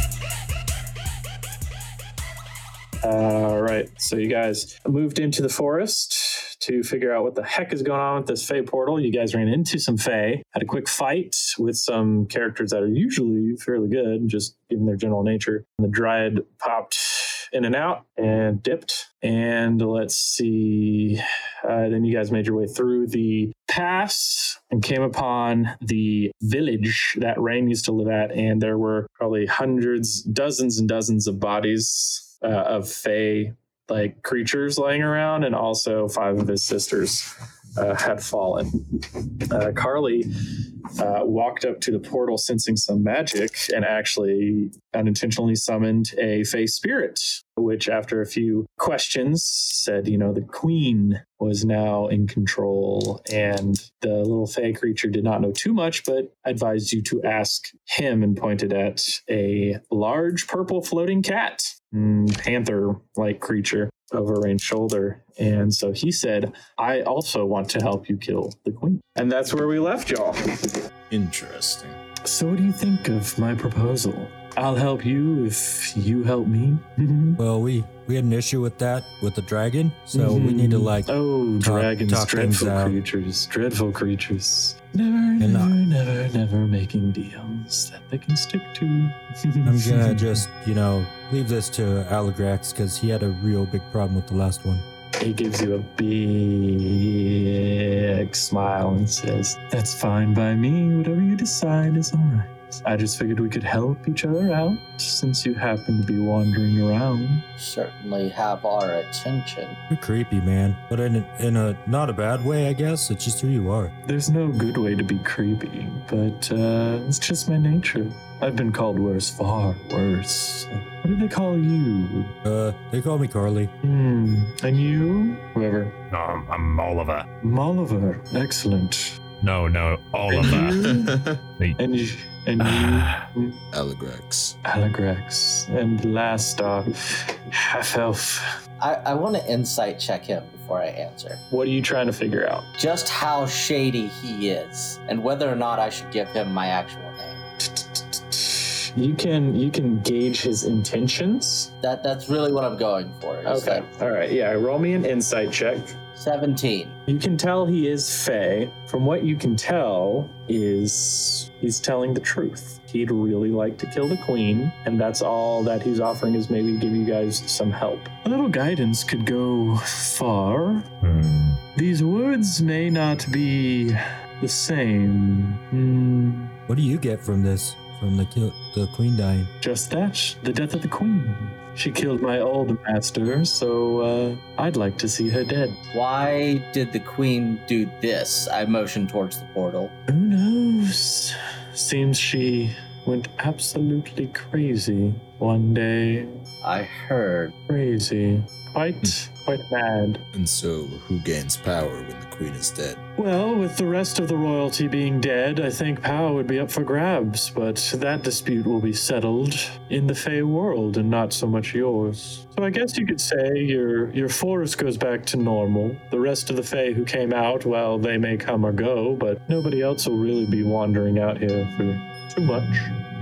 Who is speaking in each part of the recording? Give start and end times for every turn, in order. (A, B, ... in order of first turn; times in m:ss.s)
0:03.0-0:40.3 A
0:41.0-1:10.7 A
1:11.1-1:12.0 B
1:12.2-1:17.4 A
1:17.4-1:23.0 C
1:20.1-1:30.4 A
1:25.4-1:25.8 C
1:29.6-1:34.8 C
1:35.2-1:47.4 A
1:47.6-1:49.8 D
1:49.9-1:53.9 C
1:54.0-2:02.3 A
2:02.4-2:03.7 C
2:03.8-2:05.9 A
2:06.1-2:07.2 E
2:07.4-2:09.1 A
2:09.4-2:10.8 E
2:10.3-2:11.1 A
2:10.8-2:11.4 B
2:11.8-2:13.6 A
2:12.6-2:13.2 E
2:13.7-2:14.6 B
2:14.6-2:18.5 A
2:18.8-2:21.4 D
2:21.5-2:22.7 A
2:22.8-2:27.4 D
2:27.6-2:31.7 A
2:31.8-2:33.8 D
2:33.4-2:35.9 A
2:36.1-2:36.9 D
2:37.1-2:50.9 A
2:51.0-2:51.6 E
2:51.7-2:56.6 A
2:56.7-2:59.5 C
2:59.6-3:05.8 A
3:05.9-3:09.9 D
3:10.1-3:16.3 A
3:16.6-3:17.5 D
3:17.7-3:20.2 A
3:20.3-3:23.0 B
3:23.2-3:43.0 A